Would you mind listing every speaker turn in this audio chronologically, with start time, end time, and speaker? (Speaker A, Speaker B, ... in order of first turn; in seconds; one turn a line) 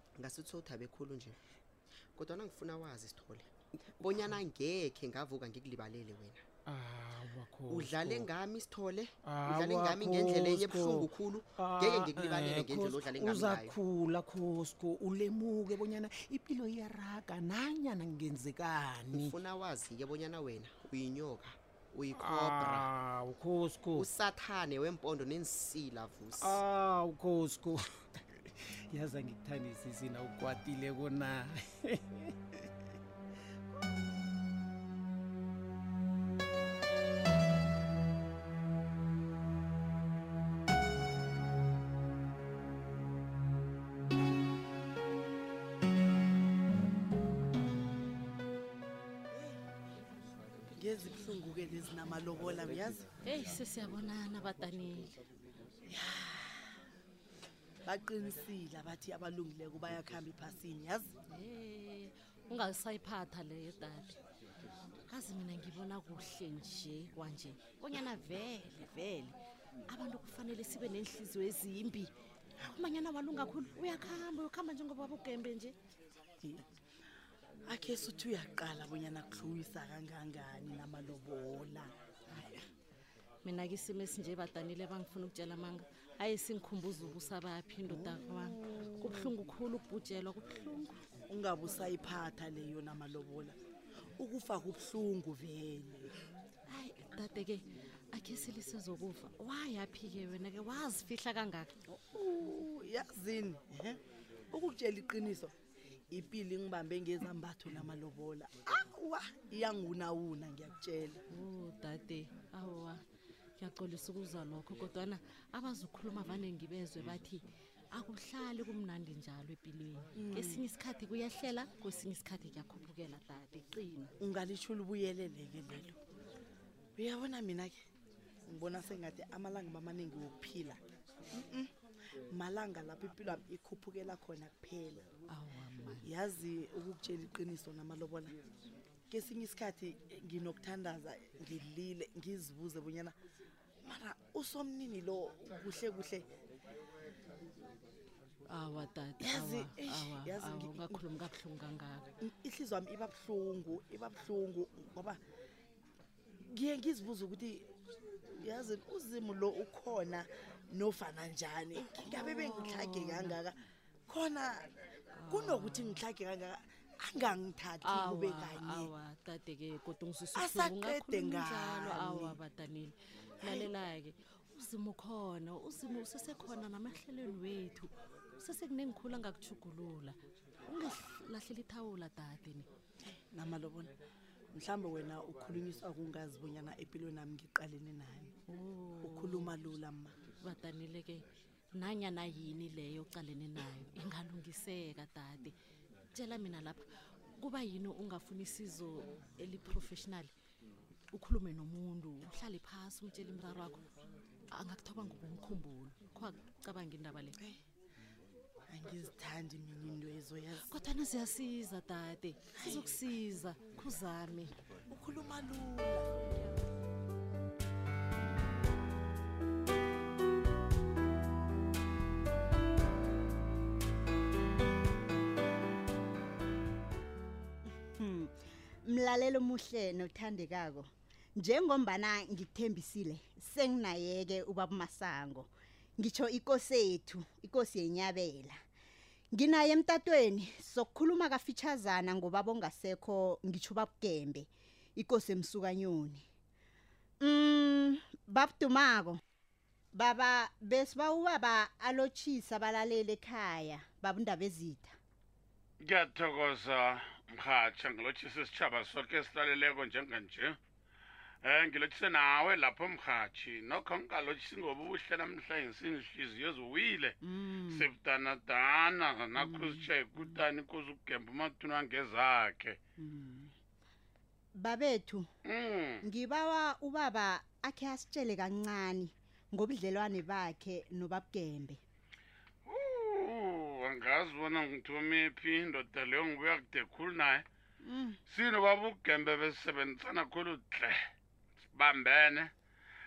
Speaker A: 0.2-1.4
Speaker A: 2.2-6.4
Speaker B: 6.7-8.3
Speaker A: 7.7-13.8
Speaker B: 9.2-19.4
Speaker A: 19.1-22.9
Speaker B: 22.1-24.1
Speaker A: 24.0-26.6
Speaker B: 26.4-32.4
Speaker C: 50.8-53.0
Speaker D: 53.2-55.1
Speaker C: 55.9-56.4
Speaker C: 57.9-61.1
Speaker D: 61.3-64.2
Speaker D: 65.1-72.1
Speaker D: 72.7-75.8
Speaker C: 77.7-81.9
Speaker D: 83.4-91.0
Speaker C: 87.9-89.2
Speaker C: 91.3-93.6
Speaker C: 94.2-96.1
Speaker D: 96.7-101.7
Speaker C: 101.9-104.0
Speaker C: 104.5-105.5
Speaker C: 106.1-111.2
Speaker D: 111.3-113.0
Speaker D: 113.6-124.1
Speaker C: 120.2-120.6
Speaker C: 124.2-126.0
Speaker C: 127.0-127.8
Speaker C: 128.5-130.8
Speaker C: 131.5-131.7
Speaker C: 132.3-135.0
Speaker D: 135.3-136.1
Speaker C: 136.0-138.3
Speaker C: 139.1-143.2
Speaker C: 143.8-146.3
Speaker D: 148.5-152.1
Speaker C: 149.2-150.9
Speaker C: 152.2-155.2
Speaker C: 156.5-157.6
Speaker C: 158.4-163.5
Speaker D: 161.7-163.4
Speaker C: 164.1-164.6
Speaker D: 165.1-166.0
Speaker C: 165.3-168.8
Speaker D: 167.8-182.7
Speaker C: 170.5-172.3
Speaker C: 183.1-183.9
Speaker C: 184.5-188.3
Speaker D: 188.5-189.6
Speaker C: 189.1-190.1
Speaker D: 190.4-195.5
Speaker D: 196.1-196.8
Speaker D: 197.4-200.3
Speaker D: 201.1-203.9
Speaker D: 204.5-207.4
Speaker C: 208.7-210.6
Speaker D: 210.6-214.6
Speaker C: 214.9-216.1
Speaker E: 227.9-238.6
Speaker E: 239.3-246.2
Speaker E: 247.2-249.2
Speaker E: 249.9-254.9
Speaker F: 255.8-260.6
Speaker F: 261.4-272.8
Speaker E: 267.2-267.9
Speaker E: 269.4-270.4
Speaker E: 273.0-273.5
Speaker E: 274.5-275.3
Speaker F: 275.4-276.0
Speaker E: 276.0-281.8
Speaker F: 282.7-287.4
Speaker E: 287.8-288.2
Speaker F: 288.3-291.0
Speaker F: 291.7-292.5